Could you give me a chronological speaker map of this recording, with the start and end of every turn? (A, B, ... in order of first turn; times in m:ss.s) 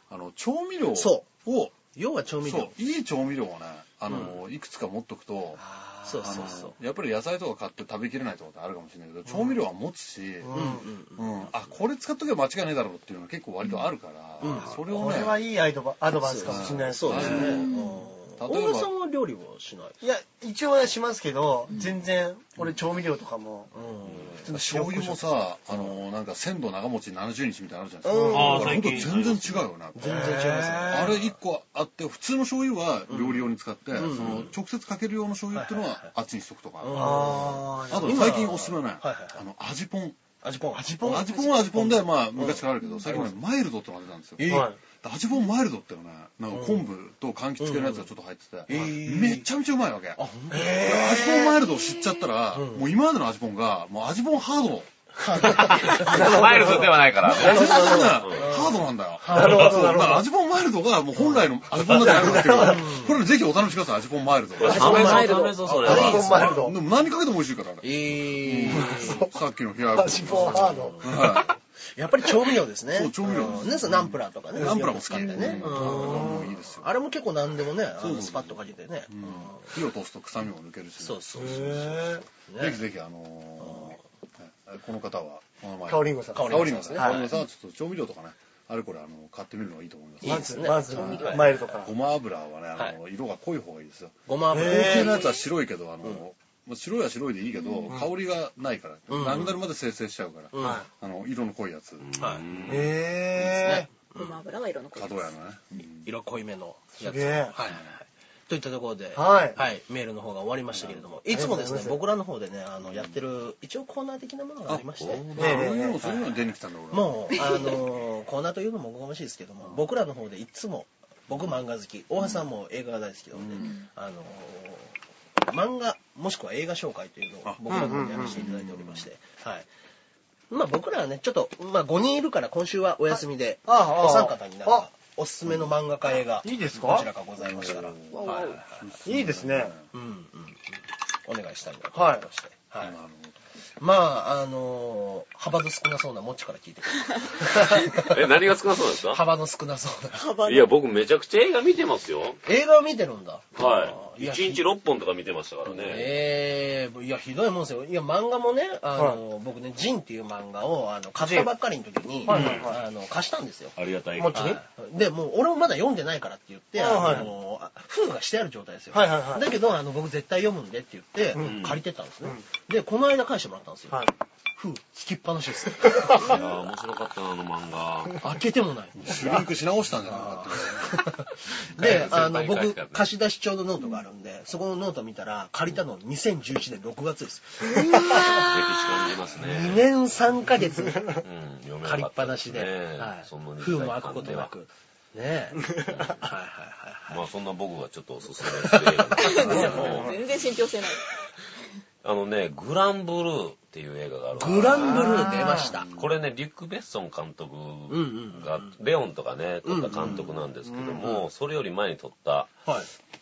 0:00.1-0:01.8 A
0:01.0-0:01.3 B
0:01.9-0:02.8 B
0:02.4-0:05.6 A
0:04.1-0:04.4 B
0:05.6-0:06.6 C
0:06.0-0:06.8 B
0:06.2-0:15.4 A
0:10.4-0:10.8 C
0:10.5-0:11.6 B
0:14.4-0:15.1 B
0:14.9-0:17.7 C
0:16.2-0:20.0 B
0:16.4-0:17.7 A
0:17.6-0:18.0 D
0:18.4-0:18.9 A
0:20.0-0:23.7 C
0:23.7-0:24.5 B
0:24.4-0:25.4 C
0:24.4-0:40.2 A
0:28.0-0:28.9 B
0:28.3-0:29.7 E
0:30.0-0:31.3 B
0:30.1-0:31.2 C
0:33.1-0:34.5 B
0:35.5-0:36.1 B
0:36.8-0:39.4 B
0:36.9-0:38.4 C
0:40.4-0:43.3 B
0:40.8-0:41.7 C
0:41.0-0:55.7 A
0:44.4-0:44.7 B
0:44.5-0:44.8 C
0:46.5-0:46.9 B
0:47.6-0:48.1 B
0:48.7-0:49.5 B
0:50.2-0:51.2 B
0:50.5-0:51.6 C
0:52.5-0:52.9 B
0:55.2-1:00.0 B
0:55.7-0:58.4 E
0:55.8-0:58.1 C
0:57.2-1:05.3 A
0:59.3-1:00.3 C
1:01.8-1:02.9 C
1:02.0-1:03.2 B
1:04.6-1:06.6 E
1:04.6-1:06.8 C
1:04.8-1:06.5 B
1:05.8-1:11.6 A
1:07.8-1:09.2 B
1:08.7-1:09.3 C
1:09.9-1:11.6 C
1:10.3-1:19.8 B
1:12.9-1:16.9 A
1:13.3-1:13.6 C
1:14.6-1:16.5 C
1:18.0-1:42.8 A
1:21.0-1:21.9 B
1:21.4-1:22.2 C
1:22.5-1:22.8 B
1:23.6-1:24.0 B
1:25.9-1:27.3 C
1:26.3-1:27.3 B
1:30.2-1:31.8 B
1:30.2-1:31.9 C
1:34.3-1:35.3 B
1:34.5-1:35.3 C
1:39.1-1:39.6 B
1:40.5-1:40.8 B
1:40.6-1:40.9 C
1:42.0-1:43.0 E
1:42.2-1:44.4 B
1:42.7-1:43.9 C
1:44.1-1:45.3 D
1:45.0-1:46.1 A
1:46.0-1:56.4 B
1:47.0-1:47.6 C
1:47.6-1:47.9 A
1:49.2-1:49.6 C
1:50.8-1:51.0 A
1:51.3-1:52.0 C
1:52.8-1:53.2 A
1:54.7-1:57.8 A
1:55.4-1:56.0 C
1:56.9-2:09.7 B
2:03.3-2:03.7 A
2:07.4-2:09.1 A
2:07.7-2:08.5 C
2:10.5-2:18.8 B
2:13.1-2:14.9 C
2:16.4-2:17.1 C
2:17.4-2:19.9 A
2:18.1-2:18.6 D
2:19.0-2:19.7 C
2:19.9-2:23.0 B
2:21.9-2:22.3 C
2:22.8-2:23.4 A
2:23.8-2:28.2 B
2:27.5-2:29.2 E
2:29.0-2:30.4 B
2:30.1-2:30.7 D
2:30.4-2:32.4 E
2:32.4-2:34.7 B
2:33.6-2:36.2 E
2:35.7-2:43.8 B
2:41.2-2:41.5 C
2:42.2-2:42.8 C
2:42.3-2:42.8 E
2:43.8-2:44.6 E
2:44.2-2:44.6 C
2:44.3-2:56.4 B
2:46.8-2:47.3 C
2:48.9-2:49.5 C
2:51.4-2:51.8 E
2:56.0-2:56.4 C
2:56.1-2:58.2 E
2:58.2-2:59.4 B
2:59.0-3:02.3 A
3:00.1-3:08.6 B
3:01.8-3:03.1 E
3:07.9-3:08.2 C
3:08.1-3:09.9 E
3:09.3-3:11.2 B
3:10.9-3:11.2 C
3:11.2-3:14.5 E
3:11.8-3:15.6 B
3:15.7-3:16.1 C
3:15.9-3:16.3 E
3:16.2-3:17.3 B
3:17.1-3:20.3 E
3:18.4-3:20.1 B
3:19.2-3:21.0 D
3:19.4-3:19.9 A
3:22.0-3:25.4 E
3:24.4-3:25.9 B
3:24.8-3:25.7 C
3:25.6-3:26.1 A
3:25.9-3:32.6 E
3:27.9-3:28.8 B
3:29.6-3:30.3 B
3:30.0-3:30.3 A
3:30.6-3:31.1 C
3:32.6-3:32.9 B